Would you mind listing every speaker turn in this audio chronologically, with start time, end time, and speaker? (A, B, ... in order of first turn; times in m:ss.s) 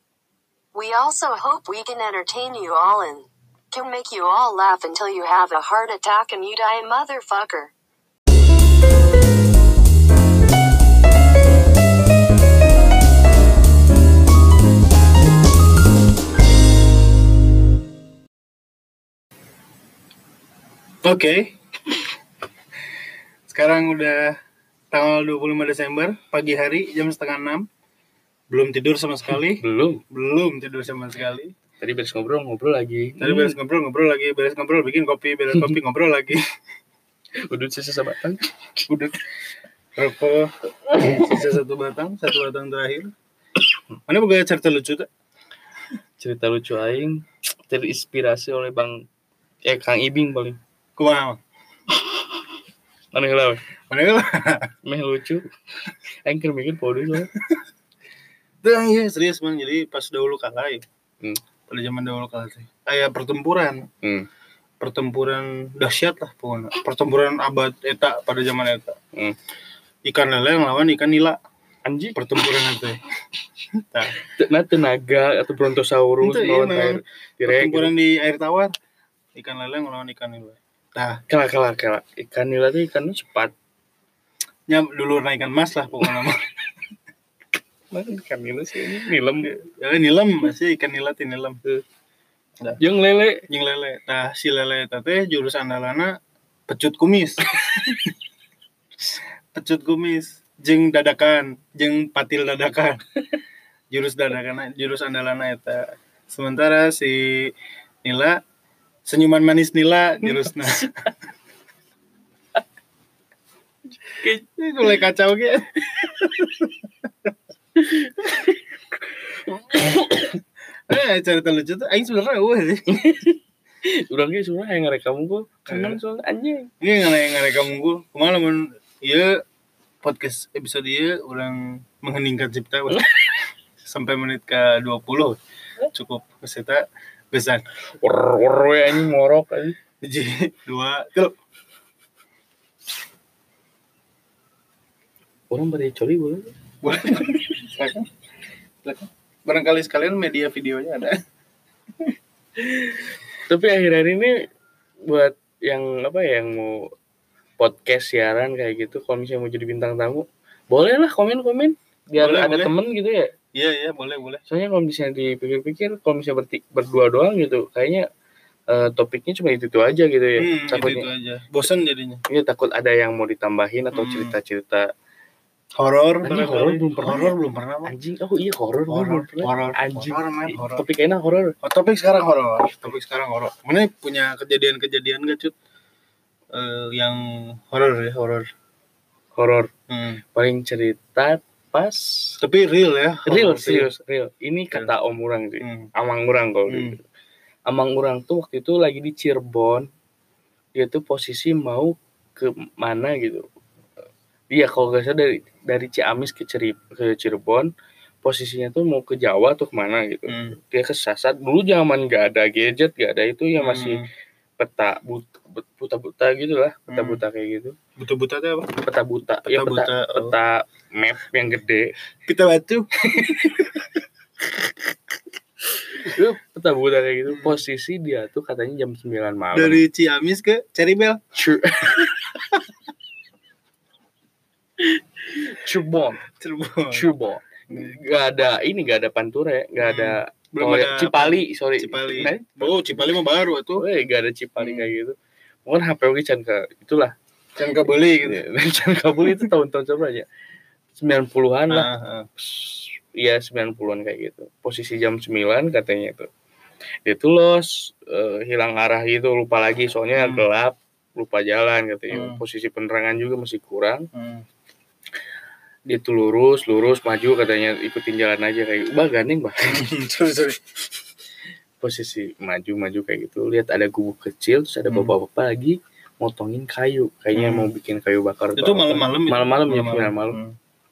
0:00.7-0:07.7 A
0:21.0-0:22.0 B
0:23.5-0:24.4 B
0:24.9-0:27.6 B
0:28.5-0:31.5 B
0:29.6-0:30.0 C
0:31.8-0:33.6 C
0:33.2-0:36.4 B
0:37.5-0:38.5 C
0:38.8-0:39.2 B
0:40.0-0:43.1 B
0:41.0-0:41.3 C
0:44.1-0:45.1 B
0:46.2-0:49.0 C
0:49.6-0:50.6 C
0:51.0-0:51.4 B
0:53.1-0:53.6 C
0:53.9-0:54.7 B
0:54.8-0:57.3 C
0:58.6-1:00.8 B
1:01.7-1:03.9 B
1:04.0-1:04.3 C
1:04.8-1:09.0 B
1:10.0-1:11.4 B
1:11.8-1:12.2 C
1:12.2-1:13.0 B
1:13.7-1:14.2 B
1:14.2-1:17.9 C
1:16.2-1:18.7 B
1:19.3-1:21.2 B
1:21.3-1:23.5 C
1:24.7-1:26.4 B
1:27.9-1:29.5 C
1:29.4-1:31.6 B
1:32.8-1:33.4 C
1:33.5-1:36.1 B
1:36.7-1:38.1 B
1:39.5-1:43.0 B
1:43.9-1:48.4 B
1:49.0-1:51.1 B
1:54.2-1:54.4 C
1:54.5-1:56.7 B
1:57.8-1:58.6 C
1:59.5-2:00.3 C
2:00.9-2:03.0 B
2:02.9-2:06.7 C
2:05.7-2:06.0 B
2:06.8-2:09.4 B
2:10.0-2:13.1 B
2:13.8-2:15.4 B
2:15.9-2:17.6 B
2:18.0-2:19.8 C
2:20.0-2:21.3 B
2:25.5-2:26.5 C
2:26.8-2:28.1 B
2:28.8-2:31.2 B
2:32.7-2:34.3 C
2:35.1-2:36.9 C
2:37.6-2:43.3 C
2:42.2-2:42.7 B
2:43.5-2:44.4 B
2:44.5-2:48.0 C
2:48.7-2:51.1 C
2:50.4-2:52.2 B
2:52.3-2:54.9 C
2:53.9-2:54.4 B
2:55.8-2:57.9 B
2:56.2-2:57.3 C
2:57.9-3:01.5 C
2:58.9-3:00.8 B
3:01.6-3:05.5 B
3:06.5-3:08.5 B
3:09.4-3:09.7 C
3:09.9-3:10.2 B
3:10.3-3:12.4 C
3:12.4-3:13.9 B
3:13.2-3:17.0 C
3:15.6-3:15.9 B
3:16.7-3:17.0 B
3:17.7-3:19.9 C
3:20.8-3:23.4 C
3:24.5-3:27.7 C
3:28.2-3:34.0 C
3:30.3-3:30.6 B
3:33.6-3:34.0 B
3:34.6-3:37.8 C
3:36.9-3:37.2 B
3:38.0-3:38.7 B
3:38.8-3:41.9 C
3:39.4-3:40.3 B
3:42.2-3:43.8 B
3:43.1-3:43.8 C
3:45.8-3:49.8 C
3:47.3-3:47.6 B
3:49.5-3:51.2 B
3:51.3-3:52.3 C
3:54.8-3:56.2 C
3:56.3-3:57.0 B
3:56.9-4:02.8 C
3:57.7-3:58.0 B
3:59.8-4:03.8 B
4:03.8-4:05.1 C
4:04.6-4:04.9 B
4:05.6-4:07.1 C
4:07.6-4:08.4 B
4:08.2-4:10.2 C
4:09.2-4:09.5 B
4:11.0-4:11.9 C
4:11.7-4:12.3 B
4:12.4-4:16.3 C
4:17.0-4:24.1 C
4:20.2-4:20.4 B
4:22.1-4:22.4 B
4:24.1-4:24.4 B
4:25.9-4:29.8 C
4:29.7-4:30.6 B
4:31.8-4:40.4 C
4:34.9-4:35.1 B
4:37.3-4:37.7 B
4:38.6-4:40.5 B